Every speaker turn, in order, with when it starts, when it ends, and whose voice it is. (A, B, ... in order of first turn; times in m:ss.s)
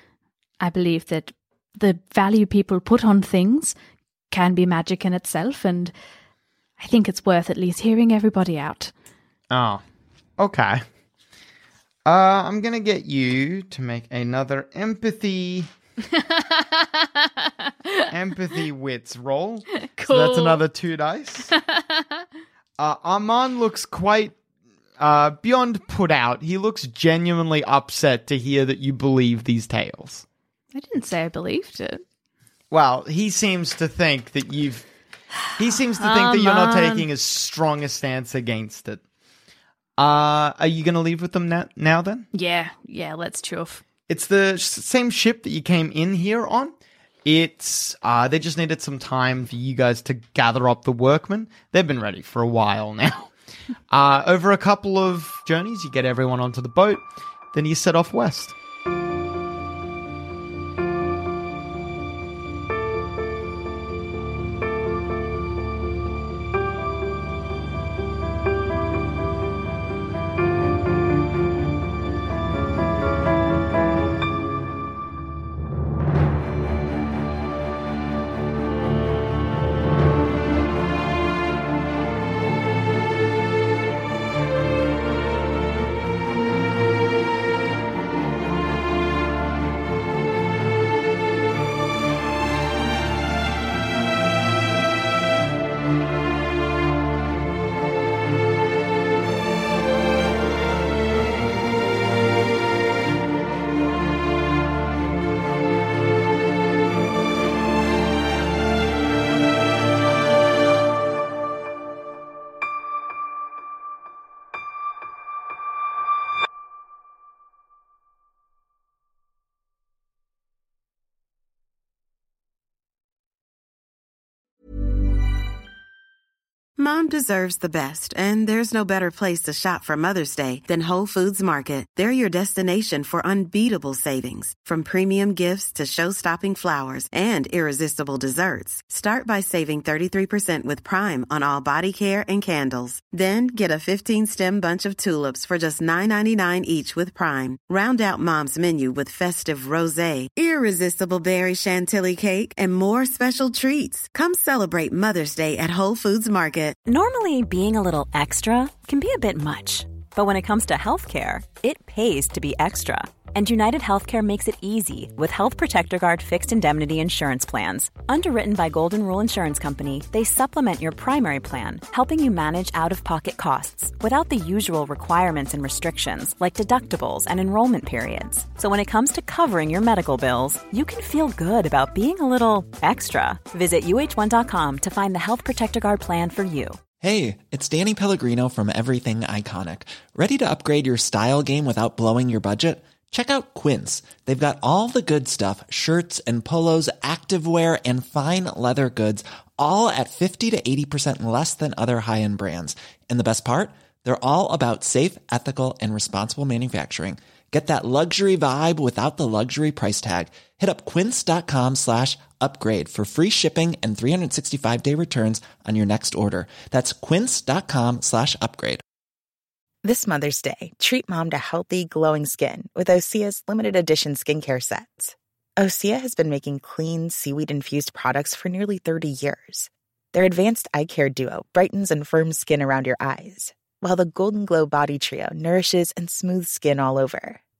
0:00.6-0:03.7 A
0:04.3-0:05.9 A
0:06.8-0:08.9 A
0:09.5-0:09.8 B
0:10.4-0:10.8 B
0:12.0-0:15.7 B
0:16.0-0:18.1 A
0:18.1-0:21.5 B
0:19.8-0:20.6 A
0:21.5-0:22.2 A
0:22.8-0:24.4 B
0:25.0-0:30.2 B
0:30.7-0:32.0 A
0:32.7-0:34.8 B
0:35.6-0:39.0 B
0:36.0-0:37.1 A
0:40.0-0:42.3 B
0:42.3-0:43.8 A
0:44.1-0:46.7 B
0:47.2-0:53.3 B
0:53.9-0:58.5 B
2:06.8-2:36.8 C
2:36.8-3:06.8 D
3:07.0-3:38.8 E
3:39.8-3:57.4 F